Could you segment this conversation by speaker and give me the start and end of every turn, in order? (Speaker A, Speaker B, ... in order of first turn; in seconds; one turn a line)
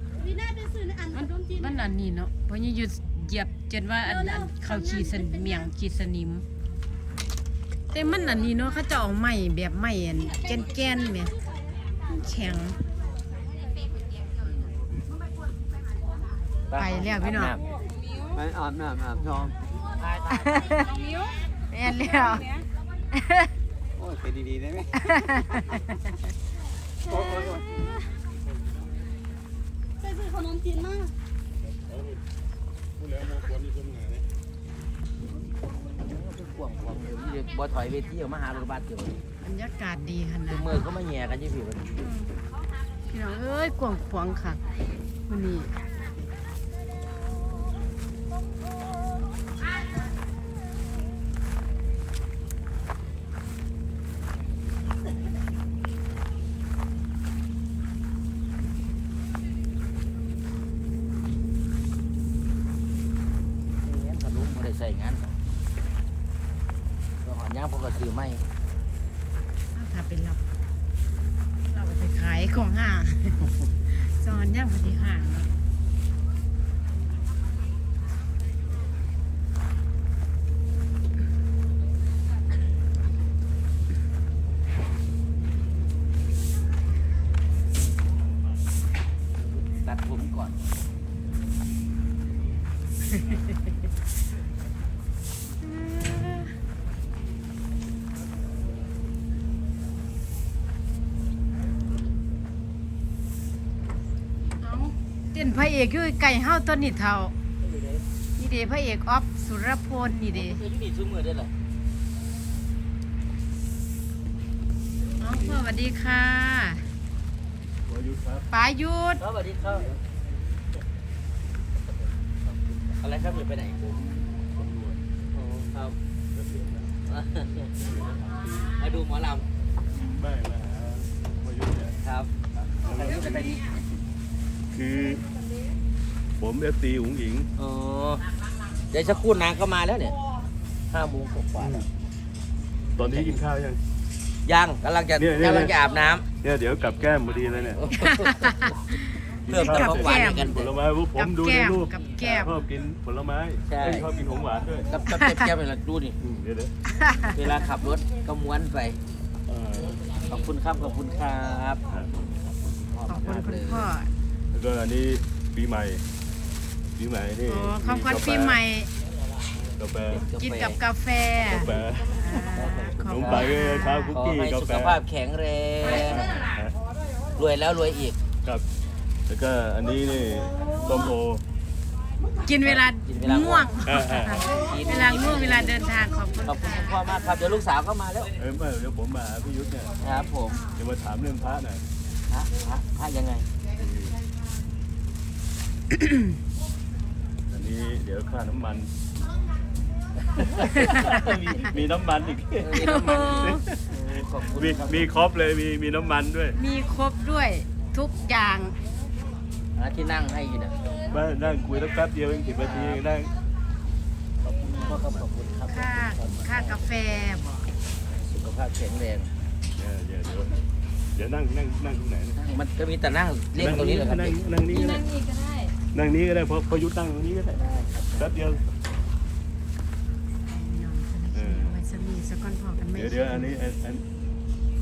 Speaker A: 0.2-1.7
Speaker B: 1.2-6.4
Speaker A: 4.1-5.6
Speaker B: 7.9-11.3
Speaker B: 12.1-12.8
Speaker C: 16.7-17.6
Speaker B: 16.8-17.6
Speaker D: 18.3-19.5
Speaker B: 20.4-20.8
Speaker A: 20.7-21.4
Speaker B: 21.7-22.4
Speaker A: 22.0-22.6
Speaker B: 23.1-23.5
Speaker D: 24.0-25.0
Speaker B: 25.0-26.0
Speaker A: 27.1-27.9
Speaker A: 30.0-31.1
Speaker E: 33.3-34.2
Speaker C: 35.8-39.2
Speaker B: 39.4-40.8
Speaker C: 40.5-41.9
Speaker B: 42.0-42.4
Speaker B: 43.1-44.6
Speaker B: 45.3-45.7
Speaker C: 63.8-65.4
Speaker C: 67.2-68.4
Speaker B: 69.7-70.4
Speaker B: 71.7-75.5
Speaker C: 89.4-90.7
Speaker B: 95.6-96.5
Speaker B: 104.6-107.3
Speaker C: 107.6-108.0
Speaker B: 108.4-110.6
Speaker C: 110.3-111.5
Speaker B: 115.2-116.8
Speaker E: 115.2-115.6
Speaker E: 117.9-118.5
Speaker B: 118.5-119.2
Speaker C: 119.2-120.0
Speaker C: 123.0-124.2
Speaker E: 124.5-125.0
Speaker C: 125.3-126.0
Speaker E: 126.3-126.9
Speaker C: 127.1-127.7
Speaker E: 127.8-128.7
Speaker C: 128.8-129.4
Speaker E: 130.1-132.0
Speaker C: 132.0-132.3
Speaker E: 132.6-133.6
Speaker C: 133.0-133.7
Speaker E: 134.7-135.2
Speaker E: 136.4-137.5
Speaker C: 137.6-138.2
Speaker C: 138.9-140.2
Speaker C: 140.9-141.9
Speaker E: 141.6-141.9
Speaker E: 143.0-143.8
Speaker C: 143.0-143.4
Speaker C: 144.4-146.2
Speaker E: 145.2-145.8
Speaker E: 146.4-147.8
Speaker C: 147.8-148.6
Speaker B: 148.1-148.8
Speaker E: 149.5-154.9
Speaker C: 149.5-150.7
Speaker B: 149.5-150.6
Speaker B: 151.2-152.6
Speaker C: 153.7-154.1
Speaker C: 154.9-156.2
Speaker E: 156.2-156.7
Speaker B: 156.9-157.3
Speaker C: 157.3-159.0
Speaker E: 159.5-160.0
Speaker C: 160.3-161.8
Speaker C: 162.6-163.9
Speaker B: 163.1-164.1
Speaker E: 164.5-166.0
Speaker E: 167.0-168.6
Speaker B: 167.5-168.9
Speaker E: 169.8-170.2
Speaker C: 170.1-170.8
Speaker B: 170.4-174.2
Speaker E: 171.4-172.2
Speaker C: 172.5-173.5
Speaker E: 173.0-175.0
Speaker C: 174.1-176.5
Speaker E: 175.9-176.8
Speaker C: 177.4-178.2
Speaker E: 179.3-181.4
Speaker B: 182.4-187.0
Speaker C: 183.1-183.7
Speaker E: 183.8-184.4
Speaker C: 184.5-185.9
Speaker C: 186.4-188.3
Speaker E: 188.4-189.9
Speaker C: 190.0-190.6
Speaker E: 190.8-191.8
Speaker C: 192.3-193.5
Speaker E: 193.8-194.2
Speaker E: 197.5-198.9
Speaker E: 200.9-203.6
Speaker C: 202.6-205.1
Speaker B: 202.8-203.6
Speaker E: 204.5-206.6
Speaker B: 206.6-208.7
Speaker C: 209.8-210.8
Speaker E: 211.1-213.3
Speaker C: 212.6-213.0
Speaker C: 214.4-216.8
Speaker B: 215.7-217.6
Speaker C: 218.1-219.3
Speaker E: 219.8-220.6
Speaker E: 221.2-222.3
Speaker C: 222.3-224.4
Speaker E: 223.6-225.0
Speaker B: 224.7-225.7
Speaker E: 225.9-227.6
Speaker C: 227.5-228.4
Speaker E: 228.2-228.6
Speaker B: 230.5-233.5
Speaker E: 231.3-231.8
Speaker E: 232.9-234.0